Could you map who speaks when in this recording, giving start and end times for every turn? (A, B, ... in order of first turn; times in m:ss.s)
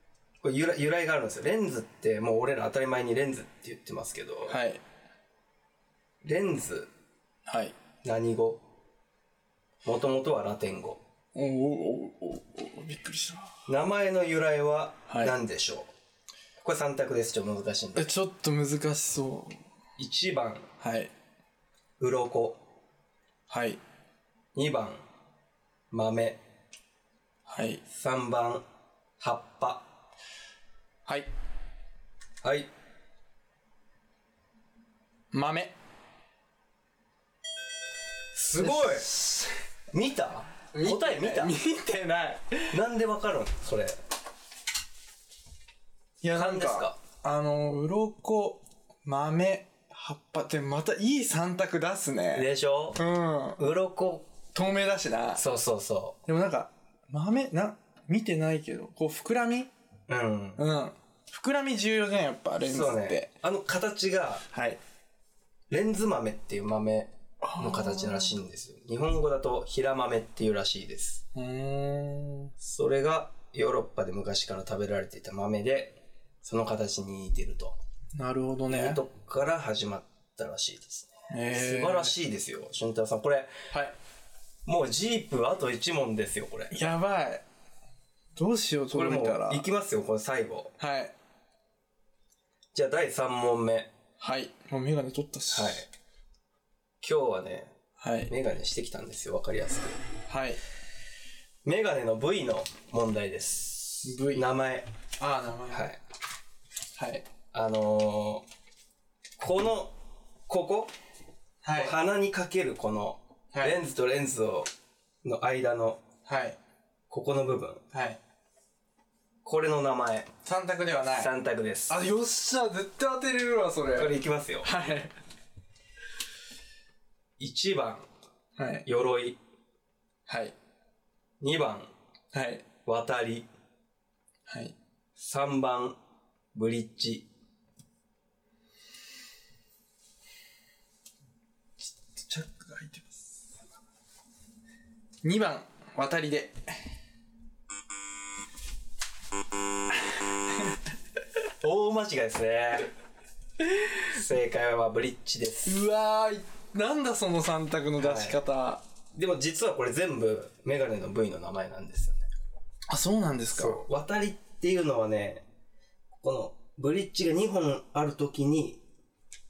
0:00.4-0:04.6 A
0:04.5-0:04.8 B
0:06.2-0:06.9 A
0:07.5-0:07.8 B
0:08.0-0:08.6 A
0:09.8-0:11.0 A
0:11.4-0:13.6 B
0:13.7-0:15.9 A
0:15.1-0:15.4 B
0:16.6-0:18.1 A
0:18.0-0:19.6 B
0:20.0-0:20.7 A
0:20.8-0:21.1 B
0:22.0-0:22.6 A
0:23.5-0:23.8 B
0:24.5-0:25.0 A
0:25.9-0:26.4 A
0:27.5-0:27.8 B
0:27.9-0:28.6 A
0:29.2-0:29.9 A
0:32.4-0:32.7 A
0:35.3-0:35.8 B
0:38.3-0:39.1 A
0:38.6-0:39.5 B
0:39.9-0:41.5 A
0:40.7-0:42.8 B
0:42.7-0:44.0 A
0:46.2-0:53.6 B
0:46.3-0:47.0 A
0:52.3-0:53.0 A
0:53.6-0:54.3 A
0:54.5-0:55.4 B
0:55.4-0:56.2 A
0:56.3-0:59.7 B
1:00.1-1:00.6 A
1:00.6-1:03.3 B
1:02.6-1:04.4 A
1:04.5-1:04.8 B
1:05.7-1:11.2 A
1:07.4-1:08.4 B
1:11.4-1:12.5 B
1:12.6-1:17.8 A
1:18.1-1:19.0 B
1:18.7-1:23.6 A
1:21.3-1:22.1 B
1:23.7-1:24.0 B
1:24.6-1:26.8 A
1:26.7-1:27.4 B
1:28.4-1:29.6 B
1:28.9-1:30.7 A
1:30.8-1:31.1 B
1:32.7-1:33.9 A
1:34.2-1:35.8 B
1:35.5-1:35.9 A
1:37.0-1:37.7 A
1:38.0-1:38.3 B
1:38.3-1:40.0 A
1:40.3-1:40.6 B
1:41.6-1:44.9 A
1:44.0-1:44.5 B
1:45.2-1:45.9 B
1:45.7-1:46.0 A
1:46.9-1:47.3 B
1:47.5-1:48.5 A
1:49.4-1:50.0 A
1:50.5-1:50.9 A
1:51.6-1:52.0 B
1:51.7-1:54.7 A
1:55.2-1:56.0 A
1:56.2-1:56.6 B
1:57.1-1:57.8 A
1:57.9-1:58.2 B
1:59.4-2:00.3 A
2:00.4-2:01.3 B
2:01.1-2:02.0 A
2:01.9-2:05.1 B
2:03.9-2:04.7 A
2:07.4-2:08.1 A
2:08.6-2:08.9 B
2:08.9-2:09.4 A
2:10.3-2:10.6 B
2:11.4-2:11.9 A
2:12.3-2:12.6 B
2:12.8-2:13.5 A
2:14.5-2:14.8 B
2:15.2-2:16.0 A
2:16.5-2:17.3 A
2:21.8-2:23.4 B
2:25.2-2:26.6 B
2:31.6-2:32.9 A
2:34.0-2:35.8 A
2:35.6-2:38.8 B
2:38.0-2:38.4 A
2:39.1-2:42.3 A
2:42.9-2:43.8 B
2:43.5-2:45.4 A
2:46.1-2:48.8 A